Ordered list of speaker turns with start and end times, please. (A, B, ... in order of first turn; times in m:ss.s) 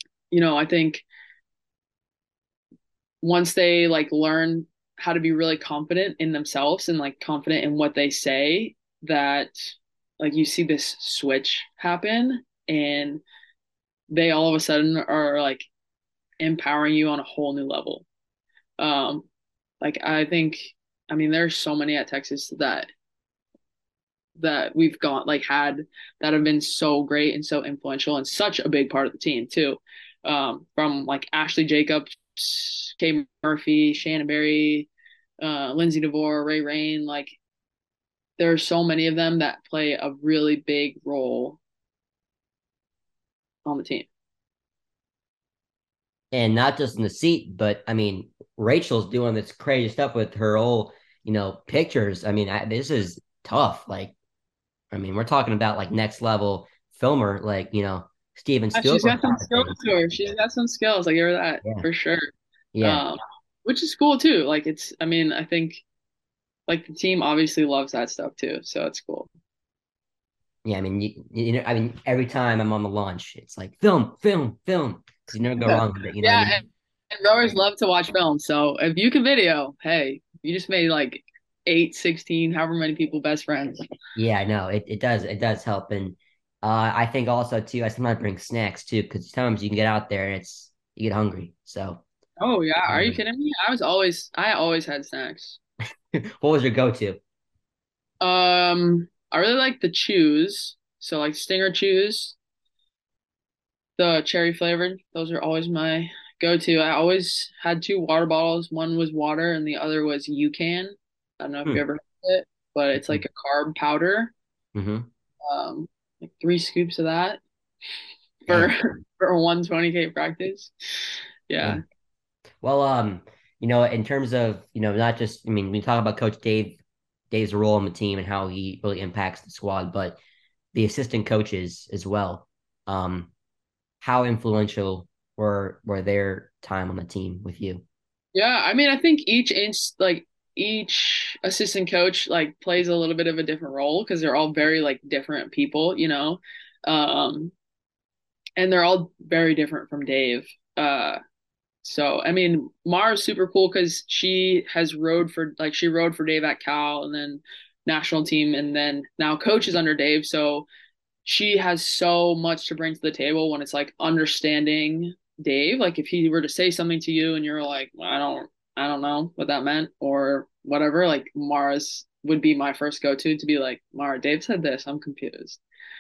0:00.3-0:01.0 A
0:03.2-0:13.2 A
0:14.1-0:15.7 A
0:16.4-0:18.0 A
0:18.8-0:19.3 A
0:19.8-0:22.9 A
0:24.4-0:34.9 A
0:35.4-0:37.4 A
0:38.4-0:41.6 A
0:43.7-0:44.1 A
0:46.3-0:54.1 B
0:54.9-0:59.8 B
0:58.7-1:02.3 A
1:02.7-1:03.0 B
1:02.8-1:05.8 A
1:06.7-1:09.3 A
1:10.6-1:16.6 B
1:15.7-1:23.8 A
1:24.2-1:32.0 B
1:32.4-1:35.6 A
1:32.9-1:33.2 B
1:36.2-1:37.2 B
1:38.2-1:42.4 A
1:44.0-1:54.3 A
1:54.8-1:55.1 B
1:55.4-1:57.4 A
1:58.5-2:01.8 A
1:58.5-1:58.8 B
2:02.6-2:06.8 B
2:07.3-2:10.2 B
2:10.7-2:13.3 B
2:14.0-2:17.8 B
2:18.4-2:27.5 A
2:28.6-2:31.2 A
2:31.8-2:40.7 A
2:41.2-2:55.6 A